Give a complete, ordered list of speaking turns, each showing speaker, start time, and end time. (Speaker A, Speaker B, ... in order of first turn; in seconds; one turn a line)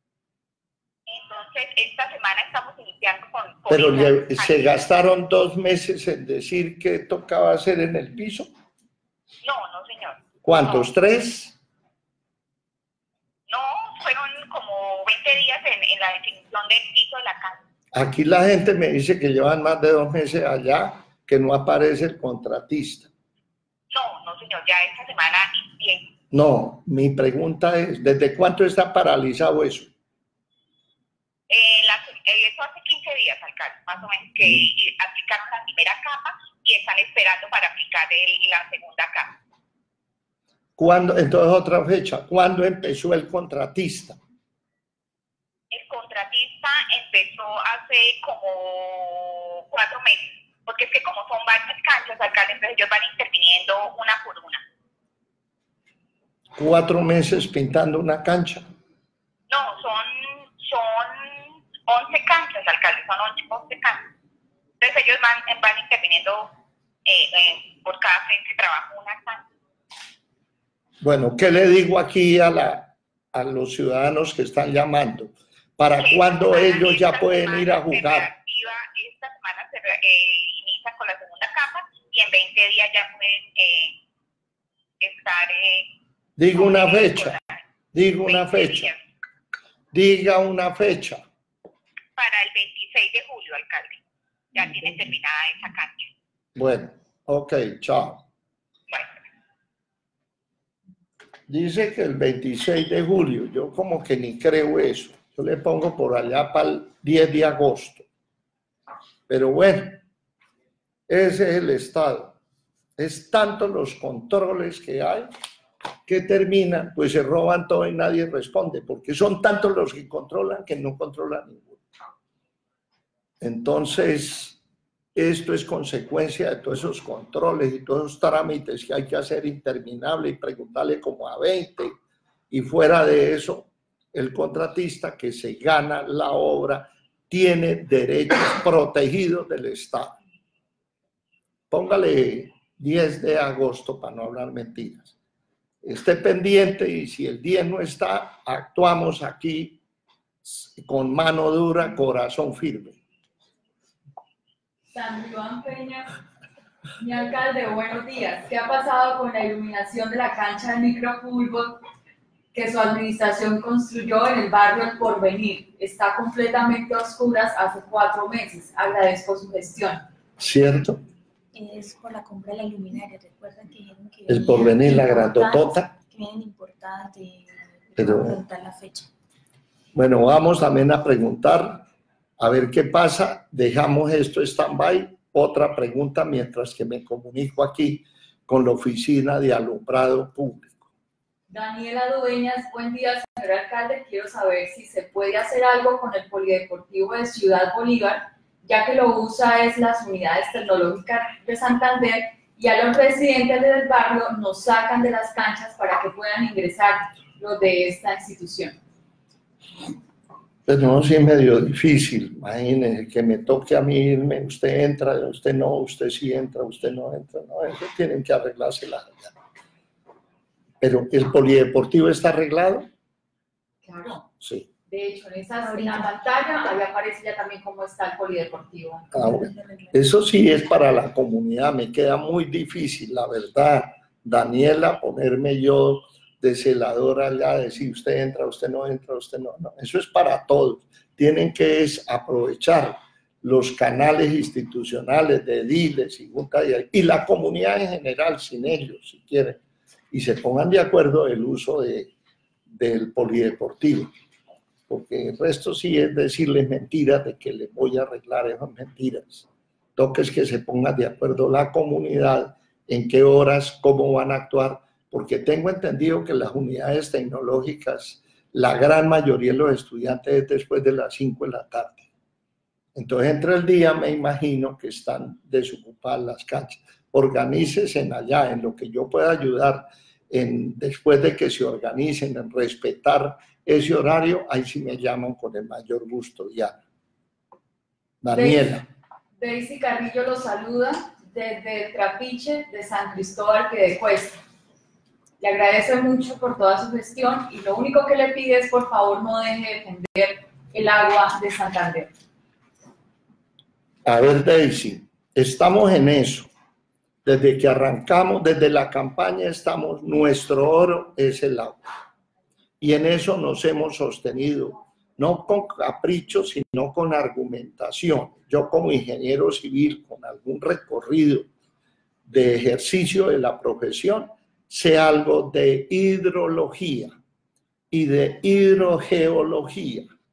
Speaker A: 1.1-4.7
Speaker B: 3.7-8.5
Speaker A: 9.4-10.2
Speaker B: 10.4-11.6
Speaker A: 13.5-17.6
Speaker B: 17.9-23.1
Speaker A: 23.9-26.1
Speaker B: 26.3-29.9
Speaker A: 31.5-39.4
Speaker B: 40.8-44.2
Speaker A: 45.7-54.6
Speaker B: 56.6-58.6
Speaker A: 59.5-64.1
Speaker A: 64.8-66.5
Speaker A: 67.0-69.4
Speaker B: 71.0-78.3
Speaker A: 76.0-84.0
Speaker A: 85.0-85.9
Speaker B: 86.4-87.4
Speaker A: 86.5-87.6
Speaker B: 87.9-88.9
Speaker A: 88.3-89.0
Speaker B: 89.9-91.2
Speaker A: 92.2-94.0
Speaker A: 94.5-96.1
Speaker B: 96.5-98.2
Speaker B: 101.5-108.0
Speaker B: 109.3-110.0
Speaker B: 111.1-112.4
Speaker B: 113.0-115.3
Speaker B: 116.1-121.8
Speaker B: 123.4-124.6
Speaker B: 125.1-131.9
Speaker B: 132.5-140.2
Speaker B: 141.7-145.1
Speaker B: 145.8-149.8
Speaker B: 150.4-153.0
Speaker C: 154.9-156.1
Speaker C: 157.0-161.8
Speaker C: 162.5-170.1
Speaker B: 170.4-171.0
Speaker D: 171.5-179.1
Speaker B: 174.3-175.9
Speaker B: 178.0-178.4
Speaker B: 179.9-181.8
Speaker B: 182.4-190.8
Speaker C: 191.5-208.8
Speaker B: 210.7-219.3
Speaker B: 220.8-222.9
Speaker C: 223.8-224.2
Speaker B: 224.4-224.7
Speaker C: 224.9-229.1
Speaker D: 225.6-226.1
Speaker B: 229.1-252.1
Speaker D: 229.1-229.9
Speaker B: 252.7-254.1
Speaker B: 254.9-272.1
Speaker B: 272.9-286.7
Speaker B: 288.2-288.9
Speaker C: 288.3-288.6
Speaker C: 289.4-294.4
Speaker C: 295.4-302.1
Speaker B: 304.0-306.5
Speaker B: 307.2-311.8
Speaker B: 312.8-321.5
Speaker B: 322.3-327.2
Speaker B: 327.9-330.1